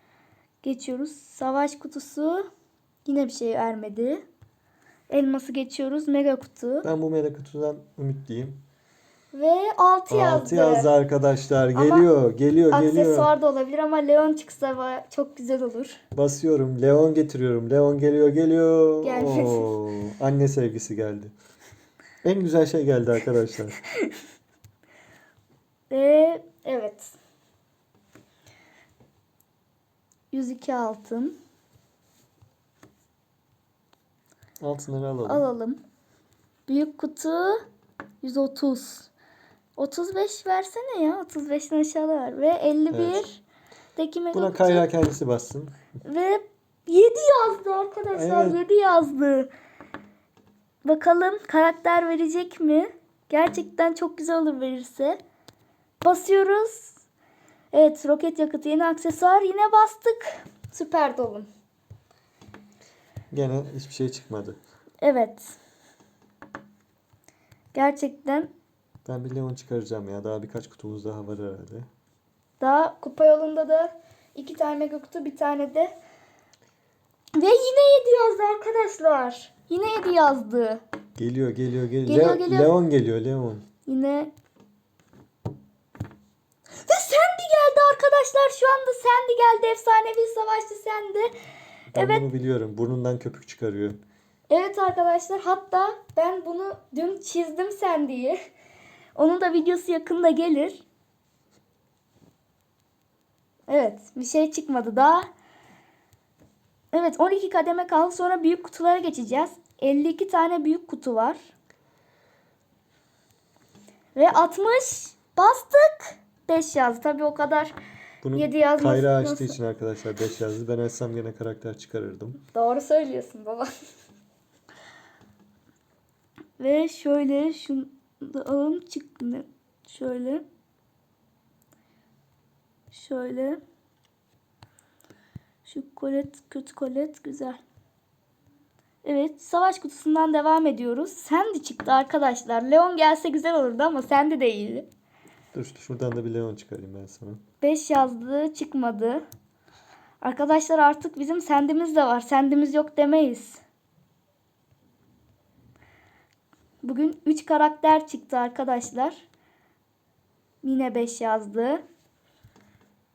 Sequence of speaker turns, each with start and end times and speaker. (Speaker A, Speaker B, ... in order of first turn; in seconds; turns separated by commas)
Speaker A: 0.6-2.5, Speaker A: 3.0-4.2, Speaker A: 5.1-6.9, Speaker B: 6.8-8.6, Speaker A: 9.3-10.9, Speaker B: 10.1-13.3, Speaker A: 11.8-12.1, Speaker A: 12.7-16.0, Speaker B: 16.1-21.3, Speaker A: 19.0-19.7, Speaker B: 22.2-23.8, Speaker A: 25.9-27.1, Speaker A: 30.3-31.3, Speaker B: 34.6-35.5, Speaker A: 35.2-35.8, Speaker A: 36.7-37.6, Speaker A: 38.2-39.1, Speaker A: 39.8-43.4, Speaker B: 42.9-43.2, Speaker A: 44.0-44.9, Speaker B: 44.3-45.8, Speaker A: 46.0-49.5, Speaker B: 48.1-48.6, Speaker A: 50.8-55.2, Speaker A: 56.0-57.0, Speaker A: 57.7-61.5, Speaker B: 63.3-64.6, Speaker A: 65.0-65.5, Speaker A: 67.7-68.5, Speaker B: 69.0-71.9, Speaker A: 72.6-75.9, Speaker A: 77.3-80.8, Speaker B: 81.2-83.7, Speaker A: 82.0-82.7, Speaker A: 83.8-84.3, Speaker A: 86.8-91.3, Speaker B: 91.9-94.0, Speaker A: 91.9-92.2, Speaker A: 94.5-98.4, Speaker A: 99.1-100.8, Speaker A: 103.7-105.2, Speaker A: 106.9-111.4, Speaker A: 114.1-117.8, Speaker B: 118.2-122.4, Speaker A: 118.3-119.6, Speaker A: 122.5-123.7, Speaker A: 126.6-130.4, Speaker A: 132.9-133.6, Speaker A: 135.6-137.6, Speaker A: 139.0-144.8, Speaker B: 145.5-147.4, Speaker A: 147.6-149.2, Speaker A: 150.2-153.6, Speaker A: 156.8-159.2, Speaker A: 160.6-161.8